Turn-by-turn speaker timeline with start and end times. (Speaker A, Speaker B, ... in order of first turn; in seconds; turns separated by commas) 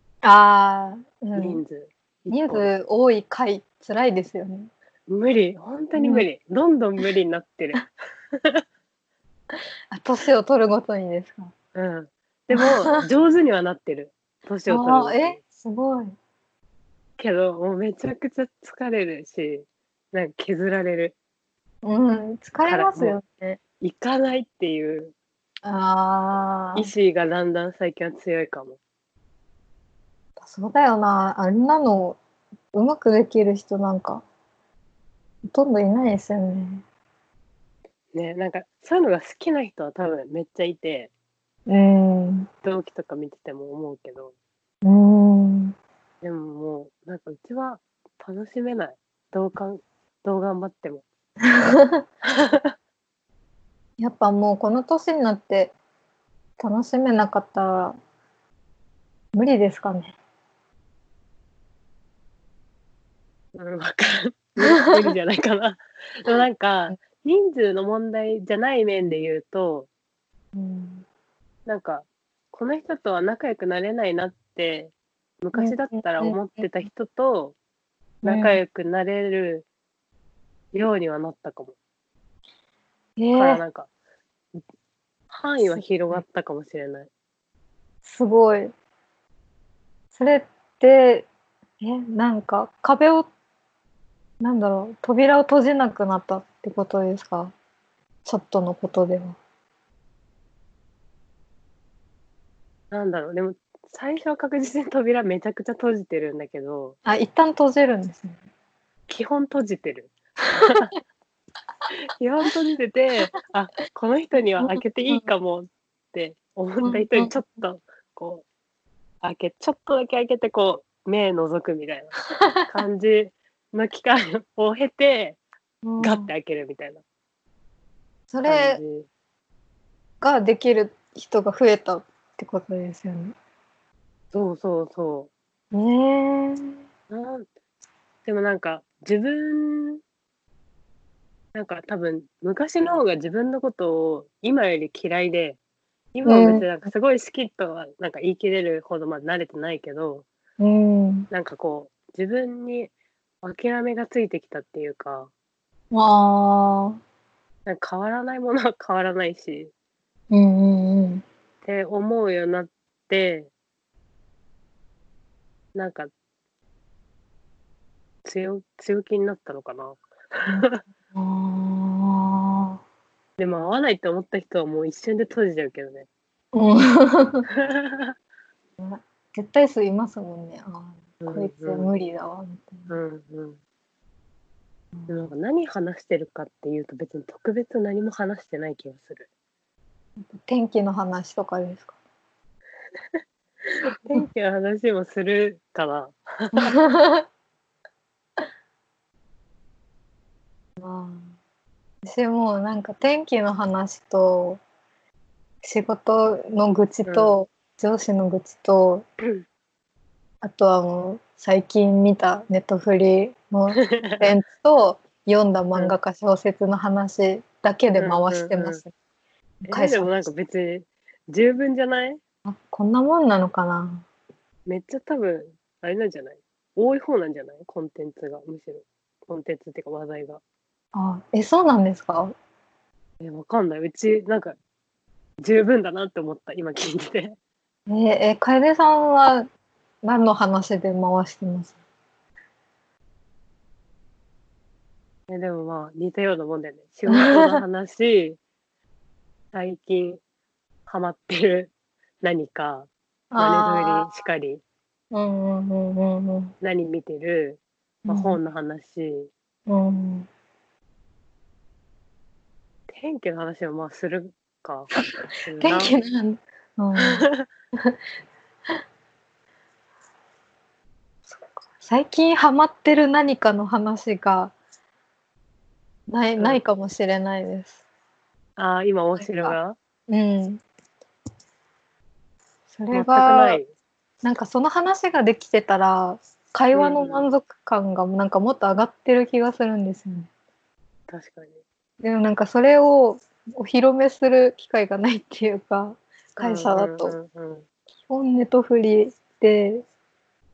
Speaker A: 0.2-1.6, Speaker B: 1.4-2.7, Speaker A: 2.3-4.7, Speaker B: 5.1-8.6, Speaker A: 6.0-6.2, Speaker A: 9.5-11.5, Speaker B: 11.7-15.4, Speaker A: 12.5-13.0, Speaker A: 14.7-16.1, Speaker B: 17.2-21.1, Speaker A: 21.8-23.6, Speaker B: 22.6-23.2, Speaker B: 23.8-25.1, Speaker A: 25.6-26.9, Speaker B: 26.7-28.8, Speaker A: 30.4-32.2, Speaker A: 32.7-34.2, Speaker A: 35.5-36.8, Speaker B: 38.1-41.1, Speaker A: 41.7-42.5, Speaker B: 42.6-44.3, Speaker A: 44.8-45.7, Speaker B: 46.2-51.0, Speaker A: 51.5-52.0, Speaker B: 52.3-52.7, Speaker A: 54.0-55.7, Speaker A: 56.6-58.0, Speaker A: 59.3-60.1, Speaker B: 63.5-69.9, Speaker A: 64.6-65.0, Speaker A: 70.5-71.0, Speaker B: 71.7-77.5, Speaker A: 75.5-76.4, Speaker A: 78.2-78.6, Speaker B: 78.2-79.7, Speaker B: 80.7-81.8, Speaker A: 83.2-83.6, Speaker B: 83.3-83.9, Speaker B: 85.3-87.1, Speaker A: 85.8-86.2, Speaker A: 88.0-88.7, Speaker A: 90.1-91.3, Speaker A: 91.8-93.3, Speaker A: 94.4-97.5, Speaker A: 98.2-99.4, Speaker B: 102.9-107.0, Speaker A: 107.0-108.4, Speaker B: 109.1-110.9, Speaker B: 111.9-118.4, Speaker A: 114.6-115.2, Speaker A: 116.8-117.4, Speaker B: 119.2-125.4, Speaker A: 125.8-126.3, Speaker B: 126.0-127.0, Speaker A: 128.3-128.8, Speaker B: 128.4-129.1, Speaker A: 130.2-133.3, Speaker B: 134.3-135.3, Speaker A: 135.7-136.7, Speaker B: 137.1-137.5, Speaker B: 138.2-140.0, Speaker B: 141.5-145.6, Speaker B: 146.1-150.2, Speaker A: 146.3-146.7, Speaker A: 150.6-151.3, Speaker B: 151.3-155.3, Speaker A: 155.9-157.0, Speaker B: 157.7-159.7, Speaker A: 160.3-161.2, Speaker B: 161.6-163.5, Speaker B: 165.7-166.1, Speaker B: 168.2-170.8, Speaker A: 170.5-172.8, Speaker B: 173.4-176.1, Speaker A: 176.5-177.4, Speaker B: 177.6-178.1, Speaker A: 178.8-182.9, Speaker B: 181.2-181.9, Speaker B: 182.9-183.6, Speaker A: 184.9-185.3, Speaker B: 185.1-189.3, Speaker A: 190.2-191.9, Speaker B: 193.6-196.7, Speaker A: 196.6-197.2, Speaker A: 200.8-201.3, Speaker A: 202.0-204.6, Speaker A: 205.6-209.0, Speaker B: 207.1-207.4, Speaker A: 210.4-218.9, Speaker B: 213.8-214.3, Speaker B: 218.0-218.8, Speaker A: 219.7-220.3, Speaker B: 219.7-222.2, Speaker A: 222.4-224.1, Speaker B: 224.7-230.4, Speaker A: 230.9-232.3, Speaker B: 233.2-234.6, Speaker B: 235.4-237.4, Speaker A: 237.9-239.5, Speaker A: 240.0-241.8, Speaker B: 245.3-248.4, Speaker A: 247.1-247.6, Speaker B: 249.5-250.2, Speaker B: 250.9-254.6, Speaker A: 253.3-254.1, Speaker A: 255.1-256.5, Speaker B: 256.6-259.3, Speaker A: 258.1-258.4, Speaker A: 259.7-260.3, Speaker B: 262.9-264.9, Speaker B: 265.4-266.0, Speaker A: 265.6-267.2, Speaker B: 267.0-267.4, Speaker A: 271.3-274.5, Speaker A: 276.1-277.8, Speaker B: 278.6-279.8, Speaker A: 279.2-279.6, Speaker A: 280.1-280.6, Speaker A: 282.7-283.6, Speaker B: 282.9-283.7, Speaker A: 284.2-290.3, Speaker B: 286.7-287.3, Speaker B: 291.1-291.6, Speaker A: 292.0-297.1, Speaker B: 296.4-297.7, Speaker A: 298.1-299.8